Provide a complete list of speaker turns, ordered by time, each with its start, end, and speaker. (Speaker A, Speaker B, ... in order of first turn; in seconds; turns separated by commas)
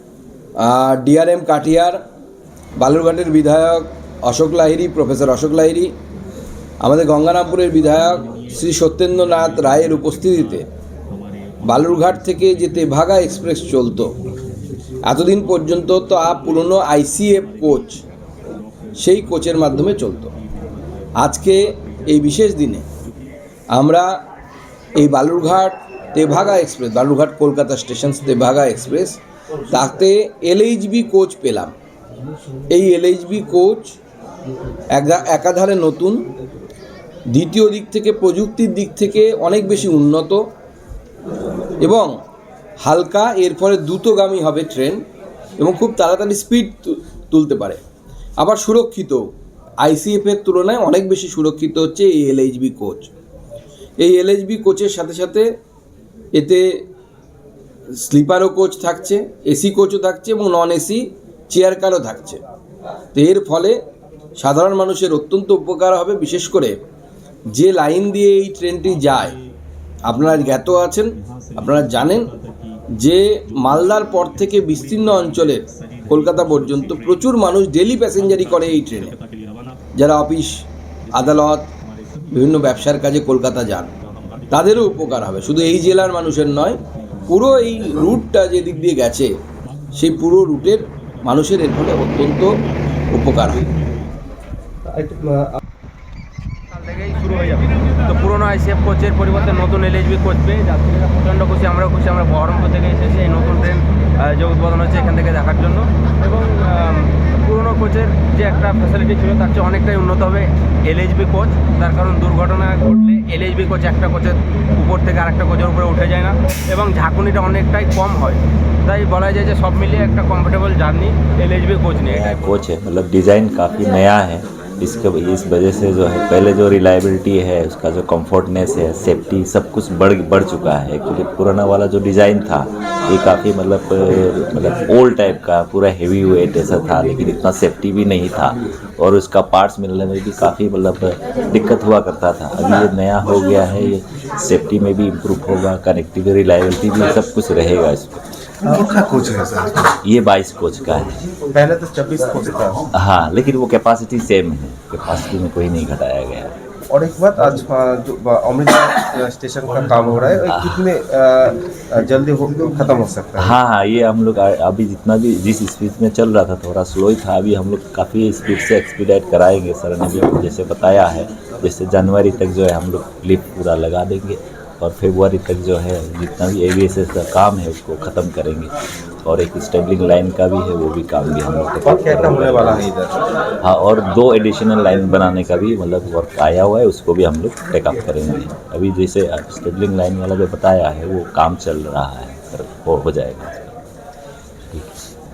Speaker A: 0.6-2.0, Speaker A: 2.8-5.9, Speaker A: 6.8-10.7, Speaker A: 11.6-14.2, Speaker A: 15.0-18.0, Speaker A: 19.0-20.3, Speaker A: 21.2-22.9, Speaker A: 23.7-24.2, Speaker A: 24.9-31.7, Speaker A: 32.7-34.0, Speaker A: 34.9-36.3, Speaker A: 37.3-40.4, Speaker A: 41.8-42.2, Speaker A: 42.8-45.0, Speaker A: 45.6-47.8, Speaker A: 48.4-53.1, Speaker A: 54.0-55.5, Speaker A: 56.3-56.8, Speaker A: 57.9-62.4, Speaker A: 63.1-63.8, Speaker A: 64.4-66.8, Speaker A: 67.5-69.4, Speaker A: 70.0-72.3, Speaker A: 72.9-79.2, Speaker A: 80.0-81.7, Speaker A: 82.3-83.9, Speaker A: 84.5-89.3, Speaker A: 89.9-93.7, Speaker B: 94.8-95.6, Speaker C: 96.7-122.3, Speaker D: 122.0-148.3, Speaker B: 148.6-149.9, Speaker D: 150.0-151.2, Speaker B: 151.5-152.9, Speaker D: 152.9-156.5, Speaker B: 156.9-163.5, Speaker D: 160.5-160.8, Speaker D: 163.4-178.7, Speaker D: 179.2-182.8, Speaker B: 181.8-183.2, Speaker D: 183.6-193.7, Speaker D: 194.7-194.9